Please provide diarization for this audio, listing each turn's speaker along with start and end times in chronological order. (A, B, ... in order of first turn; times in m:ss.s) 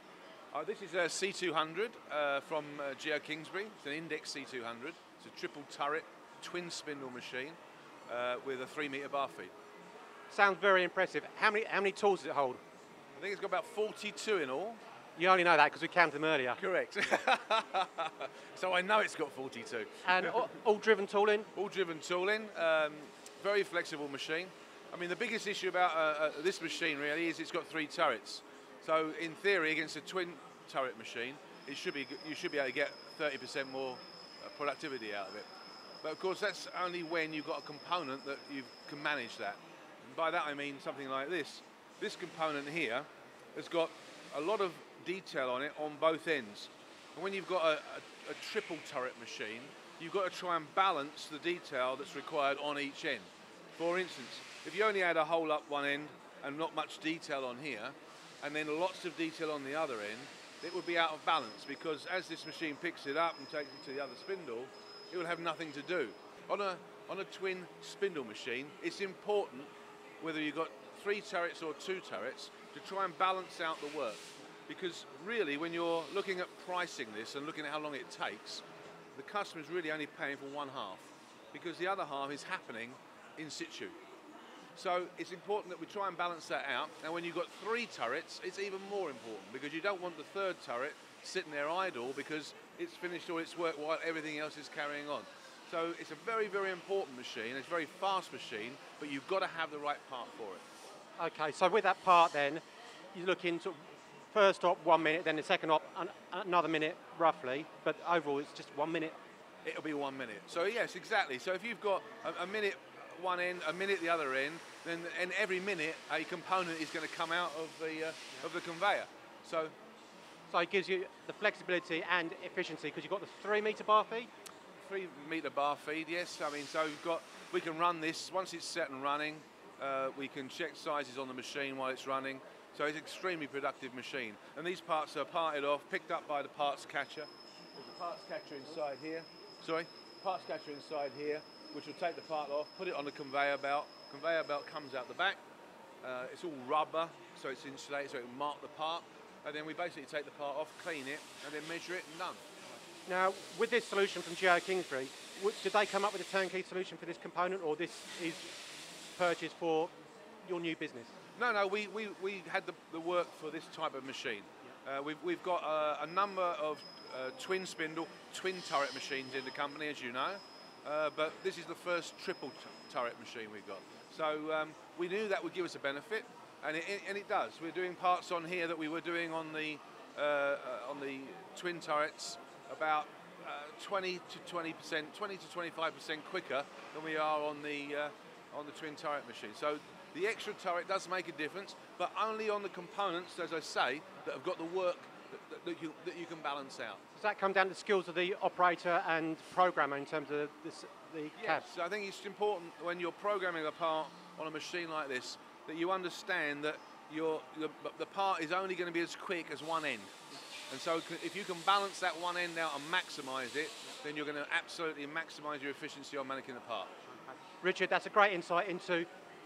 0:00.5-0:07.6 A
0:08.1-0:09.5 A
0:10.3-0:12.6 B
0:13.2-0:14.8 A
0:15.2-0:16.6 B
0:16.6-0:20.4 A
0:20.0-0:21.5 B
0:21.5-0:35.5 A
0:36.0-1:09.7 A
1:10.2-1:18.6 A
1:19.2-1:24.0 A
1:24.8-1:40.6 A
1:41.2-1:42.6 B
1:43.1-1:43.8 B
1:44.3-1:49.2 B
1:49.6-1:59.7 A
2:00.5-2:04.3 B
2:04.8-2:25.4 A
2:26.0-2:32.4 A
2:33.1-2:38.6 B
2:39.2-2:41.1 B
2:41.4-3:17.0 A
3:17.2-3:21.7 B
3:21.4-3:30.1 A
3:30.7-3:36.9 A
3:37.6-3:39.1 B